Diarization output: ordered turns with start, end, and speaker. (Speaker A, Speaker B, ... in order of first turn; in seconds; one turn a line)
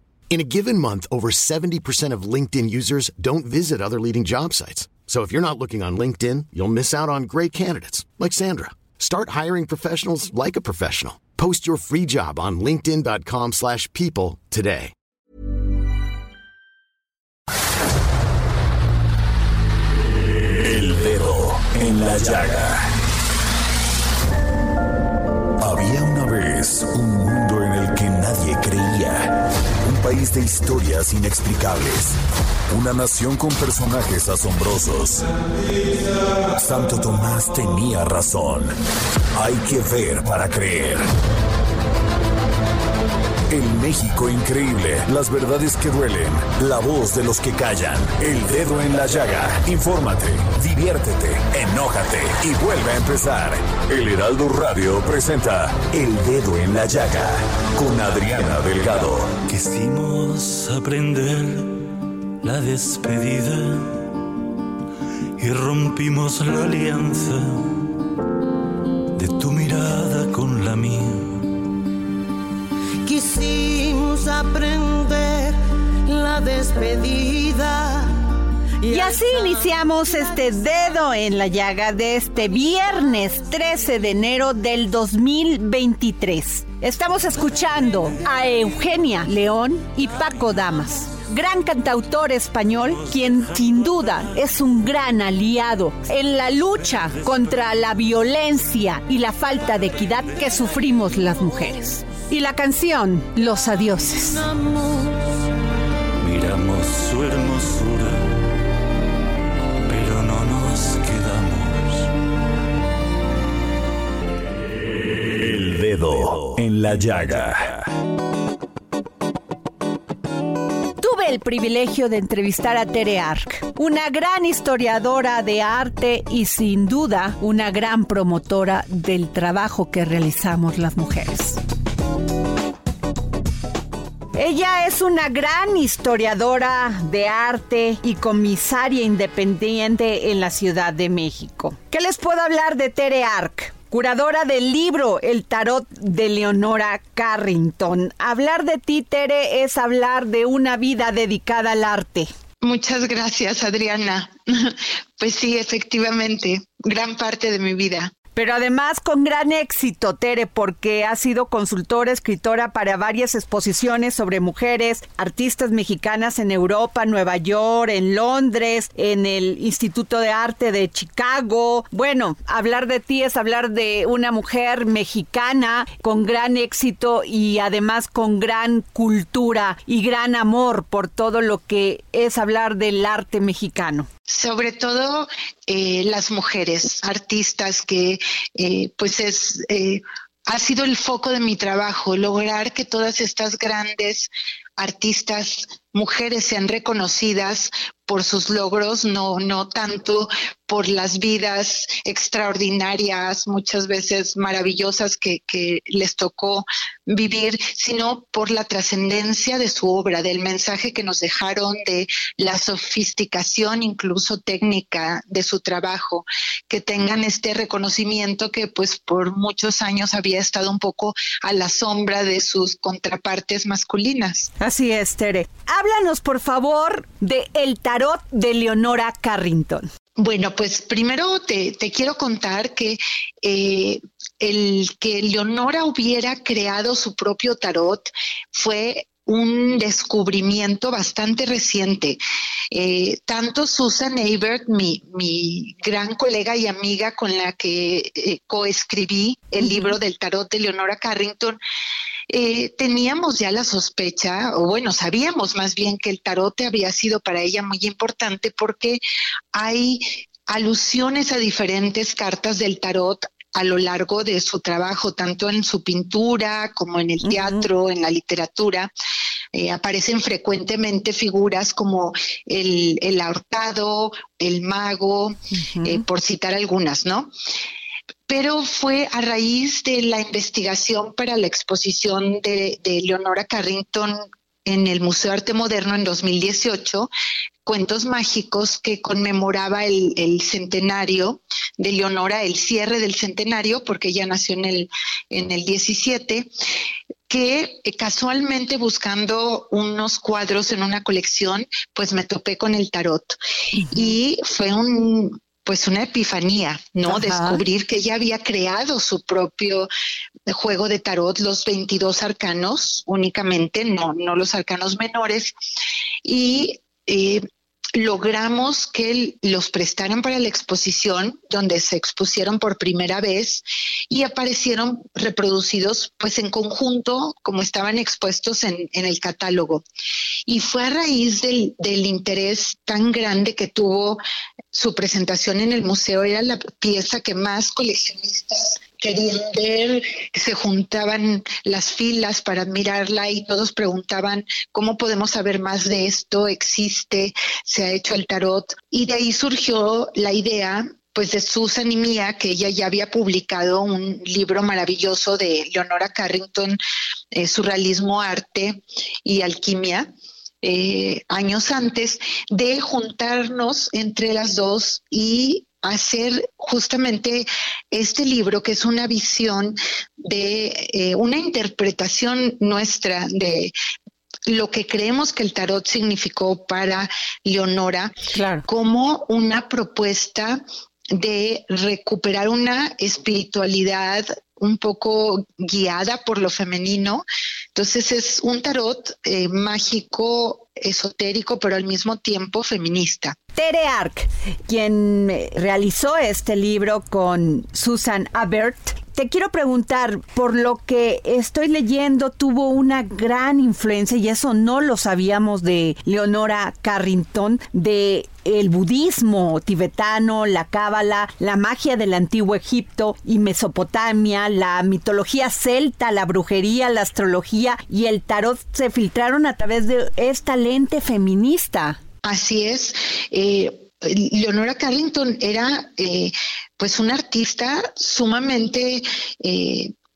Speaker A: 0.3-14.9
Speaker B: 20.6-22.8
Speaker B: 25.6-32.2
Speaker B: 32.7-35.2
Speaker B: 36.5-38.7
Speaker B: 39.3-41.0
Speaker B: 43.5-59.4
Speaker C: 59.4-61.9
Speaker C: 62.4-64.1
Speaker C: 65.4-67.8
Speaker C: 69.2-71.5
Speaker D: 73.0-78.2
Speaker D: 78.8-80.4
Speaker E: 78.9-104.4
Speaker C: 93.1-94.3
Speaker D: 104.5-105.2
Speaker C: 106.2-108.3
Speaker C: 109.9-112.1
Speaker B: 115.4-117.9
Speaker E: 121.0-131.6
Speaker E: 134.3-152.3
Speaker F: 152.6-158.1
Speaker E: 158.3-184.1
Speaker F: 184.3-224.5
Speaker E: 224.6-229.9
Speaker F: 230.2-242.2
Speaker F: 242.7-251.6
Speaker E: 249.6-249.9
Speaker F: 252.3-259.0
Speaker F: 259.5-268.9
Speaker E: 267.2-267.7
Speaker F: 269.5-277.3
Speaker E: 275.5-276.0
Speaker F: 278.3-287.1
Speaker F: 287.6-296.5
Speaker F: 297.3-303.4
Speaker E: 303.7-304.2
Speaker F: 303.9-309.9
Speaker E: 307.1-307.6
Speaker F: 310.5-315.5
Speaker F: 316.2-317.4
Speaker F: 317.9-329.8
Speaker F: 330.5-334.2
Speaker F: 334.7-356.8
Speaker F: 357.3-360.1
Speaker F: 360.6-373.7
Speaker F: 374.5-378.1
Speaker E: 378.3-378.6
Speaker F: 378.7-380.6
Speaker F: 381.1-393.4
Speaker E: 393.5-422.0
Speaker F: 422.2-429.9